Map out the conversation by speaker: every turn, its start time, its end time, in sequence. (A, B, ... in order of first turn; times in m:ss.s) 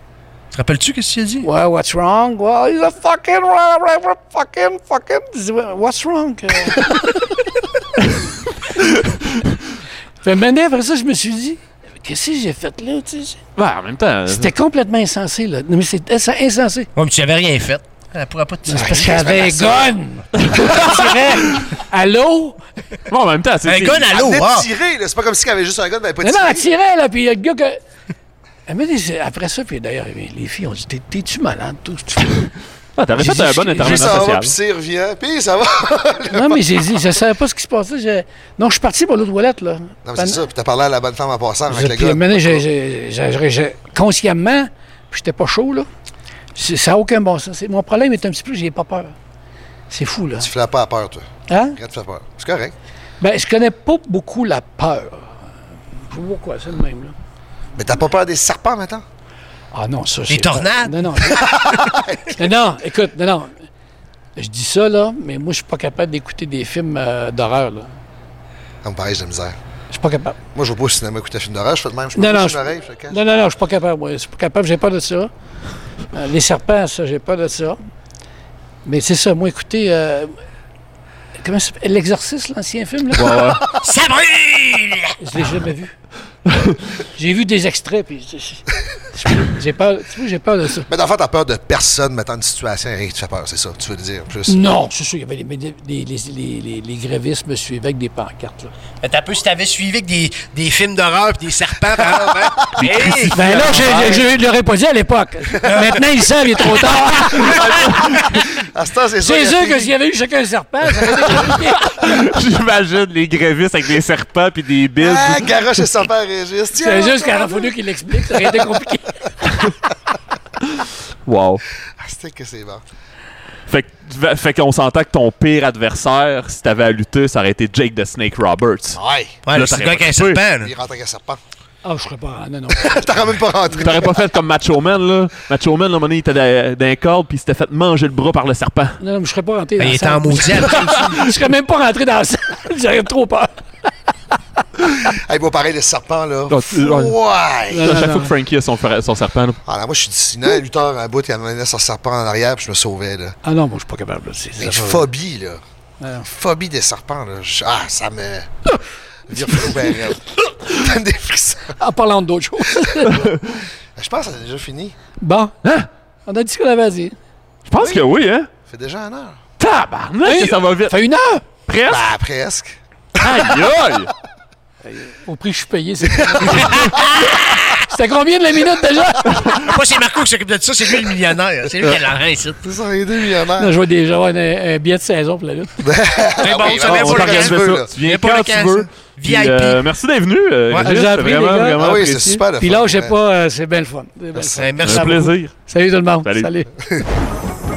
0:00.5-0:01.5 A
0:01.4-0:07.2 B
0:10.2-0:13.4 B
0:13.6-0:14.5 C
0:14.3-0:16.9 B
0:17.0-0:19.8 A
0:18.7-0:22.6 B
0:18.7-0:19.9 D
0:23.1-0:24.1 C
0:23.6-0:24.7 A
0:24.1-0:26.7 D
0:26.2-0:27.8 B
0:28.7-0:32.5 B
0:33.0-0:34.5 C
0:33.2-0:34.2 B
0:33.8-0:36.8 D
0:36.3-0:40.4 B
0:40.0-0:42.6 D
0:41.7-0:45.9 B
0:46.6-0:49.1 B
0:49.9-0:50.5 B
0:50.4-0:52.7 D
0:51.5-0:51.8 B
0:53.2-0:55.3 B
0:56.1-0:57.1 B
0:57.8-0:59.0 D
0:59.7-1:01.6 B
1:00.3-1:01.6 A
1:01.3-1:02.4 D
1:02.4-1:03.6 B
1:04.4-1:07.9 B
1:08.8-1:09.6 D
1:09.9-1:10.4 B
1:10.5-1:13.2 D
1:12.1-1:15.3 B
1:16.1-1:17.8 B
1:18.8-1:20.3 B
1:21.4-1:23.5 B
1:23.1-1:23.7 C
1:23.6-1:25.1 A
1:25.2-1:25.9 B
1:26.5-1:26.8 C
1:27.2-1:30.9 B
1:30.9-1:34.7 D
1:34.5-1:38.7 B
1:39.0-1:44.3 A
1:42.8-1:44.1 C
1:43.3-1:47.7 B
1:45.6-1:46.0 A
1:47.5-1:48.4 C
1:48.5-1:49.9 D
1:49.2-1:51.9 B
1:51.8-1:55.8 C
1:55.0-1:57.7 D
1:56.8-1:59.1 B
1:58.3-1:58.7 D
1:59.5-1:59.7 C
2:01.2-2:01.6 C
2:02.0-2:02.8 D
2:03.7-2:10.4 C
2:08.9-2:09.4 D
2:09.4-2:10.7 A
2:10.6-2:11.4 D
2:11.8-2:13.2 B
2:12.7-2:14.2 D
2:13.8-2:19.0 C
2:19.0-2:23.5 B
2:19.8-2:21.3 A
2:25.1-2:28.0 D
2:26.5-2:27.2 C
2:27.7-2:28.3 B
2:27.8-2:29.6 C
2:29.6-2:33.3 D
2:33.4-2:35.1 B
2:34.6-2:35.6 D
2:36.2-2:38.5 D
2:39.3-2:41.8 D
2:39.4-2:40.1 B
2:41.7-2:43.3 B
2:44.0-2:44.9 D
2:45.2-2:45.5 B
2:46.2-2:47.1 B
2:47.7-2:48.5 C
2:47.8-2:48.0 D
2:48.7-2:49.4 D
2:49.6-2:51.0 C
2:50.2-2:51.4 B
2:51.7-2:52.1 C
2:51.9-2:53.4 D
2:53.2-2:54.1 C
2:54.8-2:57.0 B
2:56.1-2:56.8 D
2:56.5-2:57.8 A
2:57.8-2:59.6 B
2:59.5-3:02.6 A
3:02.6-3:03.7 D
3:03.6-3:05.8 B
3:05.8-3:07.9 D
3:06.4-3:09.8 A
3:06.5-3:12.4 C
3:10.8-3:11.8 B
3:11.8-3:13.1 D
3:12.6-3:16.7 B
3:14.3-3:14.8 D
3:14.6-3:15.3 A
3:14.8-3:15.5 C
3:16.2-3:16.5 C